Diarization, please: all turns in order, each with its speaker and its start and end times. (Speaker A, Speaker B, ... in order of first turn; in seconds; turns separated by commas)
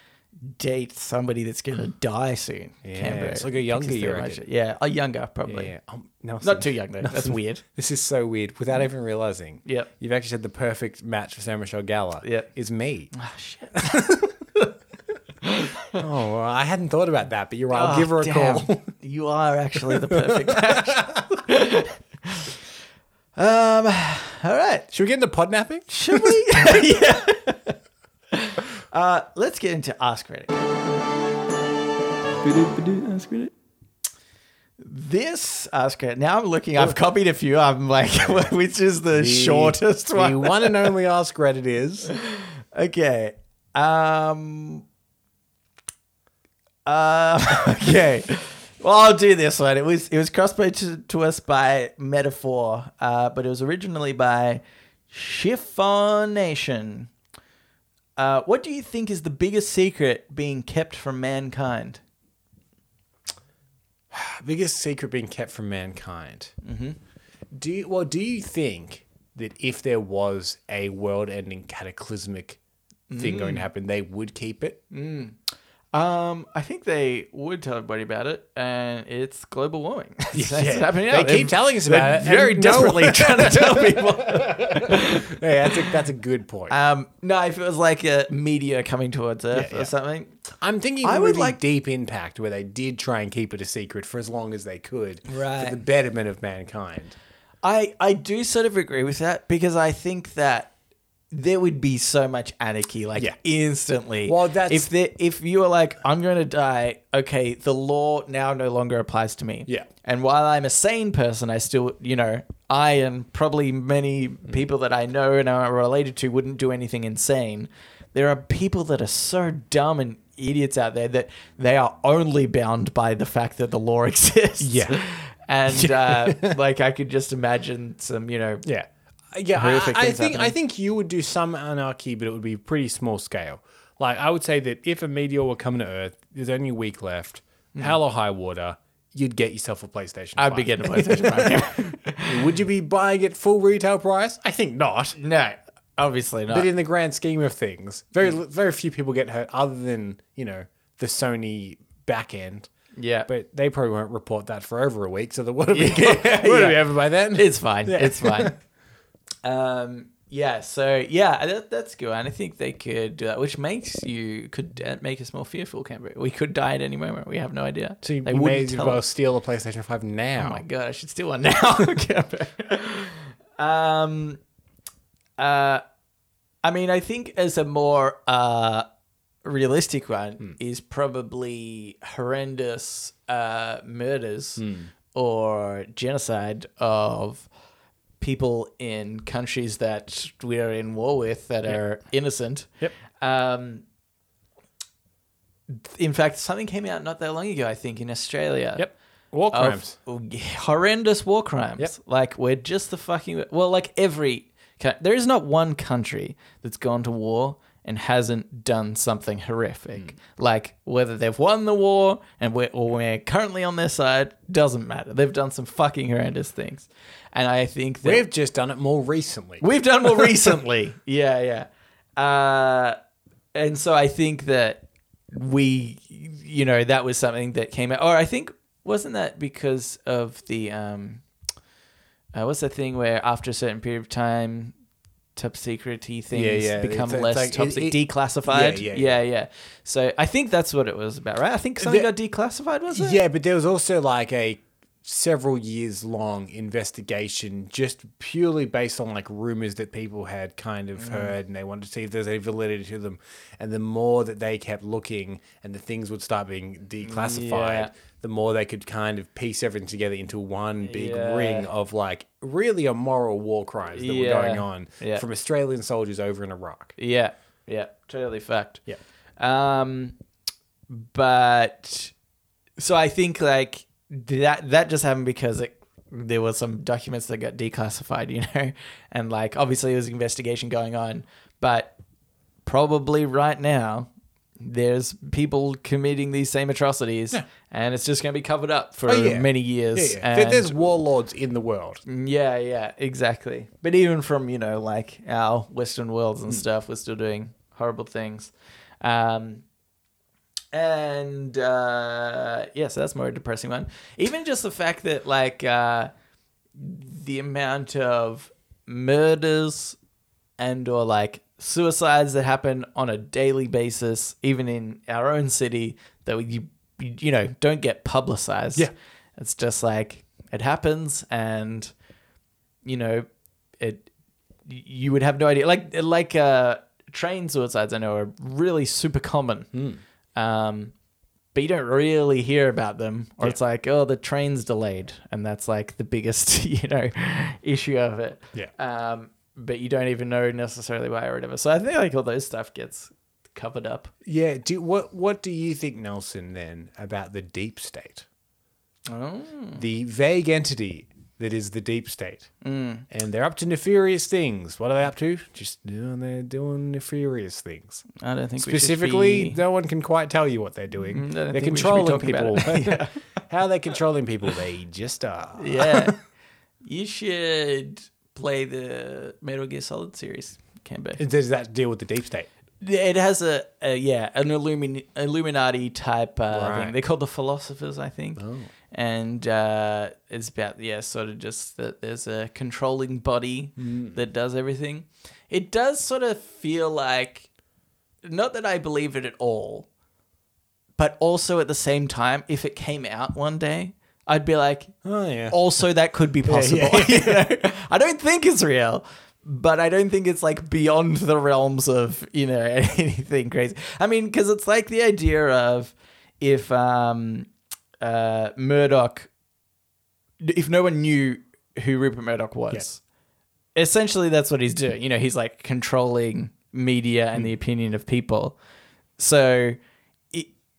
Speaker A: 0.4-5.7, Speaker B: 2.8-4.4, Speaker B: 5.5-13.1, Speaker A: 6.4-7.6, Speaker A: 12.2-12.5, Speaker A: 13.1-14.7, Speaker B: 13.7-14.3, Speaker A: 15.4-16.0, Speaker B: 15.9-18.9, Speaker A: 17.7-22.6, Speaker B: 19.8-21.4, Speaker A: 23.4-24.9, Speaker B: 24.9-27.0, Speaker A: 25.9-27.8, Speaker A: 28.3-30.6, Speaker A: 32.4-33.5, Speaker A: 34.8-40.9, Speaker B: 38.2-38.5, Speaker B: 39.1-42.1, Speaker A: 42.1-44.8, Speaker A: 46.9-57.1, Speaker A: 58.2-62.0, Speaker B: 64.1-66.5, Speaker A: 66.6-67.0, Speaker B: 67.5-72.6, Speaker A: 73.1-73.7, Speaker B: 73.2-74.8, Speaker A: 74.9-75.3, Speaker A: 75.9-86.0, Speaker B: 80.3-86.8, Speaker A: 86.7-90.4, Speaker B: 89.5-89.9, Speaker B: 90.6-97.2, Speaker A: 91.0-91.6, Speaker A: 95.3-95.8, Speaker A: 97.6-100.7, Speaker A: 101.3-128.6, Speaker B: 104.2-104.9, Speaker B: 124.6-125.0, Speaker B: 125.7-126.6, Speaker B: 128.6-145.2, Speaker A: 129.5-130.5, Speaker A: 140.4-142.5, Speaker A: 145.2-146.7, Speaker B: 146.5-152.7, Speaker A: 152.9-153.3, Speaker B: 153.3-158.5, Speaker A: 155.7-158.5, Speaker A: 159.4-169.0, Speaker B: 168.0-170.6, Speaker A: 170.4-174.4, Speaker A: 175.4-175.8, Speaker A: 176.6-178.8, Speaker A: 179.4-187.5, Speaker B: 184.6-184.9, Speaker A: 188.2-193.8, Speaker A: 195.7-198.9, Speaker B: 198.8-199.9, Speaker A: 199.5-218.2, Speaker B: 218.0-220.6, Speaker A: 219.6-223.0, Speaker A: 223.5-231.2, Speaker A: 232.3-234.7, Speaker A: 235.3-243.2, Speaker B: 236.3-239.2, Speaker B: 241.8-242.1, Speaker B: 242.9-266.9, Speaker A: 250.9-251.3, Speaker A: 257.0-257.9, Speaker A: 260.8-261.7, Speaker A: 263.9-265.2, Speaker A: 267.0-268.8, Speaker A: 269.4-270.1, Speaker A: 270.9-272.1, Speaker A: 272.8-281.9, Speaker A: 282.6-284.1, Speaker A: 284.6-290.9, Speaker B: 289.1-292.0, Speaker A: 292.1-299.6, Speaker A: 300.7-306.1, Speaker A: 306.8-310.0, Speaker A: 310.6-321.9, Speaker A: 322.8-323.3, Speaker A: 323.8-324.1, Speaker A: 324.7-329.7, Speaker B: 329.7-330.0, Speaker A: 330.4-330.9, Speaker A: 331.5-344.1, Speaker B: 344.2-348.2, Speaker A: 349.1-349.8, Speaker B: 349.8-352.5, Speaker A: 352.6-353.1, Speaker B: 353.1-358.1, Speaker A: 358.2-359.6, Speaker B: 358.6-366.2, Speaker A: 361.1-363.1, Speaker A: 365.6-366.1, Speaker A: 366.8-371.2, Speaker B: 371.2-372.5, Speaker A: 372.8-387.5, Speaker B: 376.5-376.9, Speaker B: 378.4-378.7, Speaker B: 383.8-384.2, Speaker A: 388.2-389.9, Speaker A: 391.0-394.9, Speaker B: 395.0-395.6, Speaker A: 395.5-407.5, Speaker B: 396.4-397.5, Speaker A: 408.0-409.3, Speaker A: 410.4-413.0, Speaker A: 413.7-418.6, Speaker A: 419.2-419.8